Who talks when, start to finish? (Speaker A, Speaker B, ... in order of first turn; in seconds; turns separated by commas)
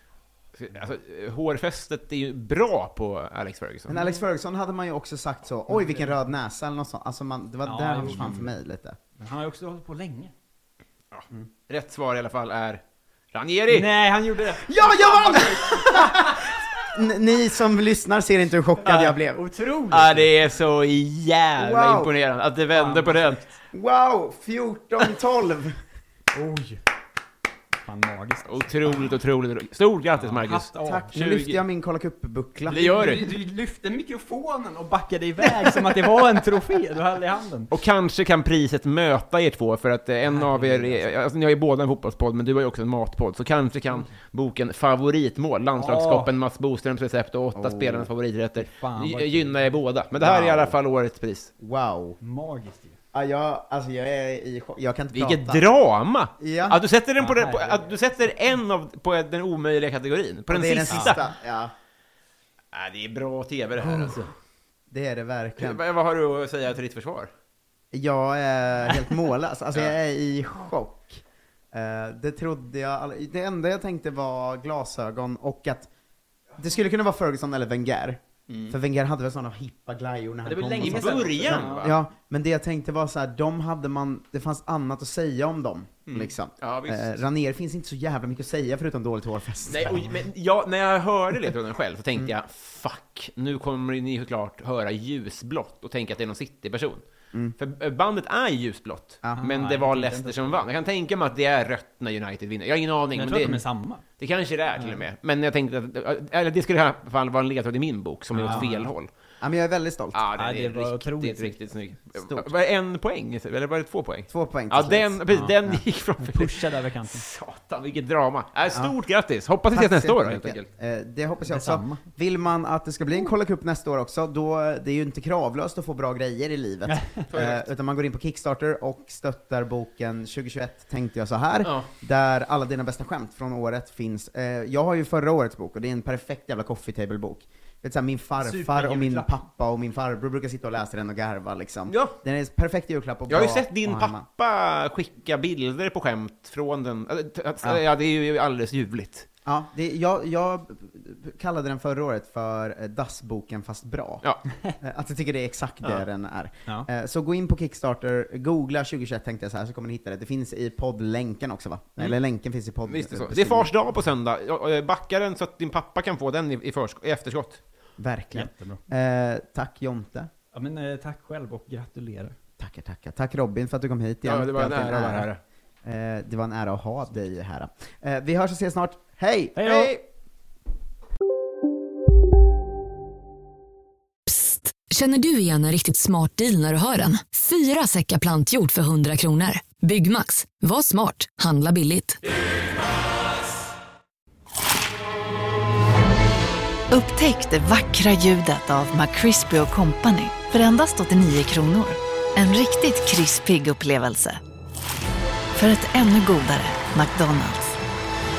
Speaker A: 0.6-3.9, Speaker B: 3.9-9.0, Speaker C: 3.9-4.2, Speaker C: 5.7-6.1, Speaker C: 7.6-8.5, Speaker C: 9.2-10.3, Speaker A: 11.1-13.9, Speaker C: 13.7-16.4, Speaker B: 14.7-19.4, Speaker A: 18.9-19.1, Speaker C: 18.9-20.3, Speaker A: 19.9-23.4, Speaker B: 21.6-22.1, Speaker C: 22.7-23.5, Speaker B: 23.7-25.8, Speaker C: 26.3-26.8, Speaker C: 27.8-29.2, Speaker A: 28.5-31.6, Speaker C: 30.2-31.1, Speaker B: 30.8-33.1, Speaker A: 32.7-33.3, Speaker C: 32.8-37.7, Speaker A: 37.7-51.5, Speaker C: 40.2-41.1, Speaker C: 45.8-46.3, Speaker B: 47.5-48.1, Speaker C: 48.6-49.8, Speaker B: 50.1-50.8, Speaker B: 51.6-52.2, Speaker C: 52.2-53.0, Speaker B: 53.1-55.6, Speaker A: 55.1-61.2, Speaker B: 56.4-56.8, Speaker C: 57.2-58.0, Speaker B: 60.5-61.7, Speaker C: 60.9-61.1, Speaker A: 62.7-64.2, Speaker C: 63.8-64.3, Speaker B: 64.9-65.8, Speaker A: 65.6-67.3, Speaker B: 67.9-75.9, Speaker B: 76.6-90.1, Speaker A: 78.5-78.7, Speaker C: 80.4-81.9, Speaker A: 80.8-82.0, Speaker A: 86.1-87.2, Speaker A: 89.7-97.0, Speaker A: 97.6-109.1, Speaker C: 99.4-100.7, Speaker C: 103.1-104.0, Speaker C: 104.7-105.0, Speaker C: 108.3-108.9, Speaker B: 109.4-110.2, Speaker A: 110.1-120.7, Speaker C: 110.4-111.7, Speaker B: 114.3-115.8, Speaker C: 116.2-117.2, Speaker B: 119.7-144.2, Speaker C: 121.5-122.0, Speaker C: 126.9-127.2, Speaker A: 127.3-127.6, Speaker A: 131.6-131.9, Speaker C: 138.4-139.3, Speaker A: 141.9-142.2, Speaker A: 143.3-149.3, Speaker B: 149.4-154.2, Speaker B: 154.8-163.7, Speaker A: 162.8-167.6, Speaker B: 168.0-170.3, Speaker C: 168.3-168.8, Speaker C: 170.5-172.3, Speaker B: 172.6-175.3, Speaker A: 174.2-175.4, Speaker B: 175.8-180.0, Speaker C: 179.6-180.0, Speaker D: 184.3-192.2, Speaker E: 196.9-204.4, Speaker E: 205.6-207.7